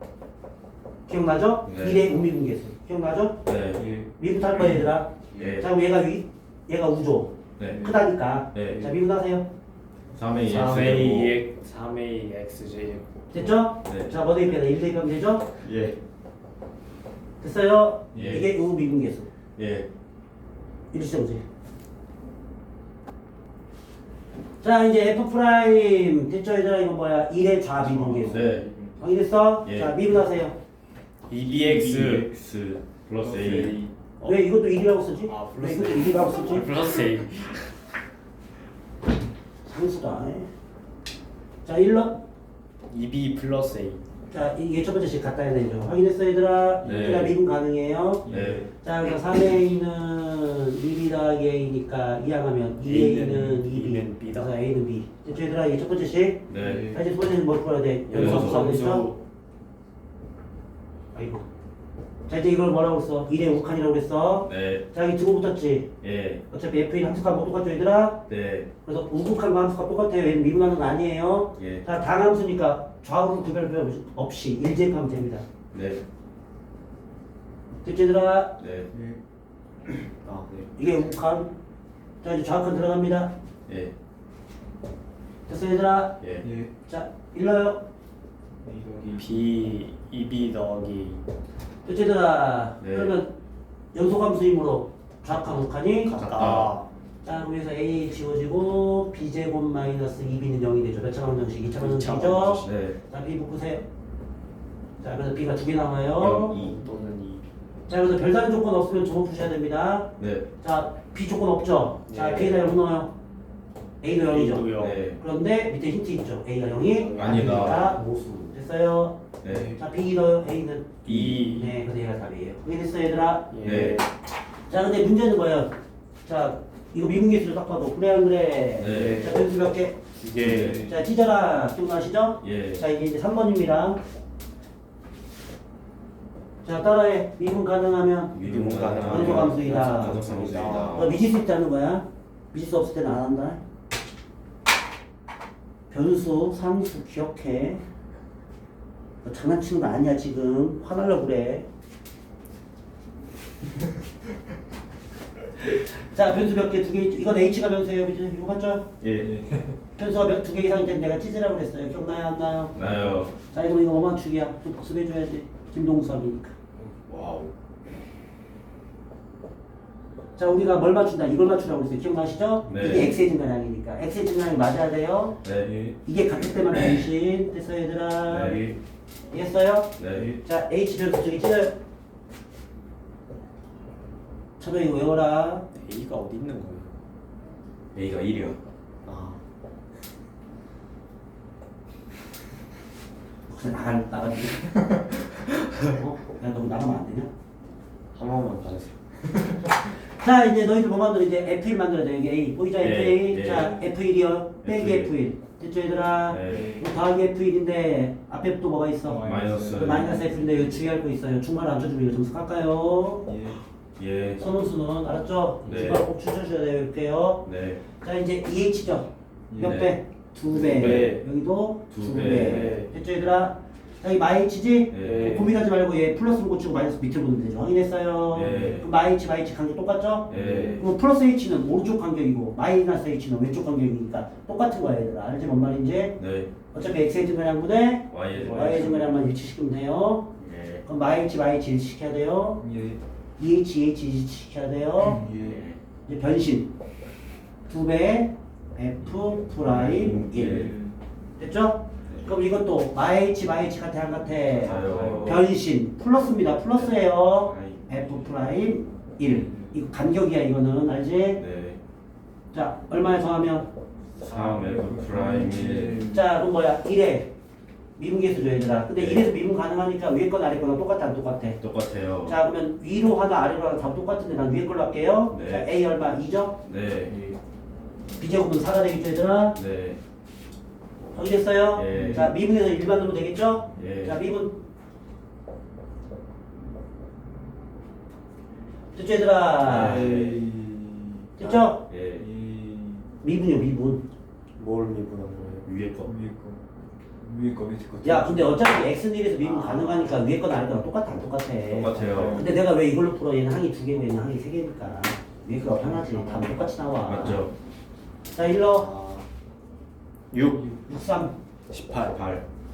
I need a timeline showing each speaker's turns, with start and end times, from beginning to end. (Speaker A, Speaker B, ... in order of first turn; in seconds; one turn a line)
Speaker A: 1.1-3.4
Speaker B: 1.7-2.0
Speaker B: 3.5-3.9
Speaker C: 3.8-4.1
Speaker A: 4.2-9.5
Speaker B: 5.3-5.7
Speaker B: 7.6-7.9
Speaker C: 7.7-8.0
Speaker B: 8.5-8.9
Speaker B: 10.1-11.4
Speaker D: 10.5-13.1
Speaker A: 13.3-15.5
Speaker B: 13.8-14.1
Speaker D: 15.7-15.9
Speaker A: 17.4-19.3
Speaker B: 18.1-18.5
Speaker B: 19.6-19.9
Speaker A: 20.9-21.4
Speaker A: 24.6-28.5
Speaker C: 27.8-29.0
Speaker B: 28.3-28.7
Speaker A: 29.0-30.5
Speaker B: 29.6-29.9
Speaker D: 31.3-32.3
Speaker C: 31.5-32.3
Speaker B: 32.1-33.8
Speaker C: 33.2-33.9
Speaker A: 34.2-36.7
Speaker D: 35.3-37.7
Speaker A: 39.6-40.5
Speaker A: 41.6-42.2
Speaker D: 42.9-44.0
Speaker A: 44.3-59.1
Speaker B: 46.8-47.3
Speaker C: 48.2-48.7
Speaker B: 48.3-48.7
Speaker D: 52.8-54.6
Speaker B: 56.5-57.0
Speaker C: 56.6-57.0
Speaker D: 58.1-59.2
Speaker B: 58.1-58.7
Speaker A: 61.1-61.4
Speaker A: 62.3-65.9
Speaker B: 64.5-64.8
Speaker B: 66.0-66.4
Speaker A: 66.5-68.2
Speaker B: 68.3-68.7
Speaker A: 68.8-75.5
Speaker B: 71.6-71.8
Speaker B: 75.7-76.0
Speaker A: 77.8-78.5
Speaker B: 78.6-78.9
Speaker C: 78.9-79.2
Speaker D: 80.2-80.7
Speaker A: 80.8-81.5
Speaker A: 82.2-83.3
Speaker B: 83.7-83.9
Speaker A: 85.5-86.2
Speaker B: 86.2-86.5
Speaker C: 86.4-86.7
Speaker A: 86.9-87.8
Speaker C: 88.6-89.4
Speaker D: 89.1-91.2
Speaker A: 91.8-93.3
Speaker B: 92.8-93.2
Speaker A: 93.9-96.2
Speaker D: 96.0-96.9
Speaker B: 96.2-96.7
Speaker A: 97.2-103.8
Speaker D: 101.8-102.7
Speaker B: 102.6-103.0
Speaker A: 105.0-106.6
Speaker B: 106.2-106.8
Speaker D: 106.5-107.5
Speaker A: 107.9-113.1
Speaker B: 110.2-110.5
Speaker D: 112.1-112.7
Speaker A: 114.0-119.2
Speaker D: 114.2-115.0
Speaker B: 114.8-115.2
Speaker D: 116.8-117.7
Speaker B: 117.1-117.9
Speaker B: 119.4-119.8
Speaker A: 119.7-123.6
Speaker D: 121.0-121.8
Speaker B: 121.1-121.4
Speaker D: 123.5-124.1
Speaker B: 123.6-124.0
Speaker A: 124.7-125.7
Speaker A: 126.3-130.0
Speaker B: 128.8-129.3
Speaker D: 128.8-129.4
Speaker D: 130.2-130.9
Speaker B: 130.4-130.8
Speaker A: 130.7-134.0
Speaker B: 132.4-132.8
Speaker A: 136.6-138.4
Speaker B: 138.3-141.2
Speaker D: 138.4-141.2
Speaker A: 139.0-140.2
Speaker A: 140.9-143.6
Speaker A: 145.9-147.8
Speaker A: 149.2-151.7
Speaker A: 156.1-158.9
Speaker B: 159.0-159.3
Speaker C: 159.2-159.8
Speaker A: 160.0-162.8
Speaker B: 162.8-163.3
Speaker A: 163.4-166.6
Speaker B: 167.1-167.5
Speaker A: 170.4-175.4
Speaker B: 172.7-173.1
Speaker B: 175.4-175.7
Speaker C: 175.6-176.0
Speaker A: 176.0-178.6
Speaker B: 178.3-178.7
Speaker C: 178.5-178.8
Speaker A: 179.3-181.8
Speaker B: 180.0-180.3
Speaker A: 184.6-185.7
Speaker D: 185.8-186.9
Speaker B: 187.9-188.6
Speaker D: 189.1-189.4
Speaker A: 193.5-194.7
Speaker A: 195.8-197.3
Speaker D: 198.2-199.0
Speaker A: 200.2-213.3
Speaker B: 202.8-203.8
Speaker B: 204.6-205.1
Speaker B: 206.3-206.8
Speaker C: 206.5-206.9
Speaker C: 209.0-210.8
Speaker B: 209.2-210.2
Speaker C: 213.3-213.6
Speaker B: 214.0-214.4
Speaker A: 214.4-236.2
Speaker B: 215.7-216.0
Speaker B: 217.4-217.8
Speaker C: 219.5-219.8
Speaker B: 219.6-219.9
Speaker D: 220.5-221.2
Speaker B: 221.9-222.8
Speaker D: 222.2-222.9
Speaker B: 224.9-225.5
Speaker D: 225.0-225.5
Speaker B: 228.3-228.9
Speaker B: 230.3-230.8
Speaker D: 230.3-230.8
Speaker B: 236.2-236.5
Speaker A: 236.7-242.6
Speaker B: 238.1-239.1
Speaker C: 238.3-239.1
Speaker B: 240.4-240.8
Speaker C: 242.6-243.0
Speaker A: 243.4-245.2
Speaker C: 245.0-245.6
Speaker B: 245.4-245.8
Speaker A: 246.1-246.7
Speaker A: 247.7-250.8
Speaker B: 249.7-250.7
Speaker C: 249.7-251.0
Speaker A: 251.4-261.4
Speaker B: 252.1-252.4
Speaker B: 254.6-255.5
Speaker B: 256.7-257.9
Speaker C: 259.3-259.7
Speaker B: 261.4-261.8
Speaker A: 262.5-263.7
Speaker B: 264.2-266.1
Speaker C: 264.2-266.2
Speaker A: 266.1-267.3
Speaker A: 268.0-271.6
Speaker B: 268.9-269.3
Speaker B: 271.6-272.4
Speaker A: 272.2-276.6
Speaker B: 275.3-275.7
Speaker B: 276.6-277.2
Speaker C: 277.1-277.4
Speaker A: 278.2-279.6
Speaker B: 279.5-280.0
Speaker A: 281.1-284.6
Speaker B: 281.7-282.3
Speaker C: 281.9-282.3
Speaker B: 283.8-284.2
Speaker A: 288.9-290.1
Speaker B: 289.6-290.4
Speaker D: 289.9-290.2
Speaker C: 290.1-291.3
Speaker A: 291.4-291.8
Speaker B: 291.9-292.3
Speaker C: 292.1-293.1
Speaker A: 293.2-294.0
Speaker D: 294.6-295.7
Speaker B: 295.6-296.1
Speaker C: 296.1-296.7
Speaker C: 297.2-298.8
Speaker A: 298.0-307.4
Speaker D: 299.4-300.2
Speaker B: 301.7-302.5
Speaker C: 302.1-302.5
Speaker D: 306.0-306.4
Speaker B: 307.1-307.5
Speaker A: 308.3-308.9
Speaker D: 308.6-309.2
Speaker D: 310.3-310.8
Speaker A: 310.9-311.3
Speaker D: 311.7-312.1
Speaker B: 312.1-312.4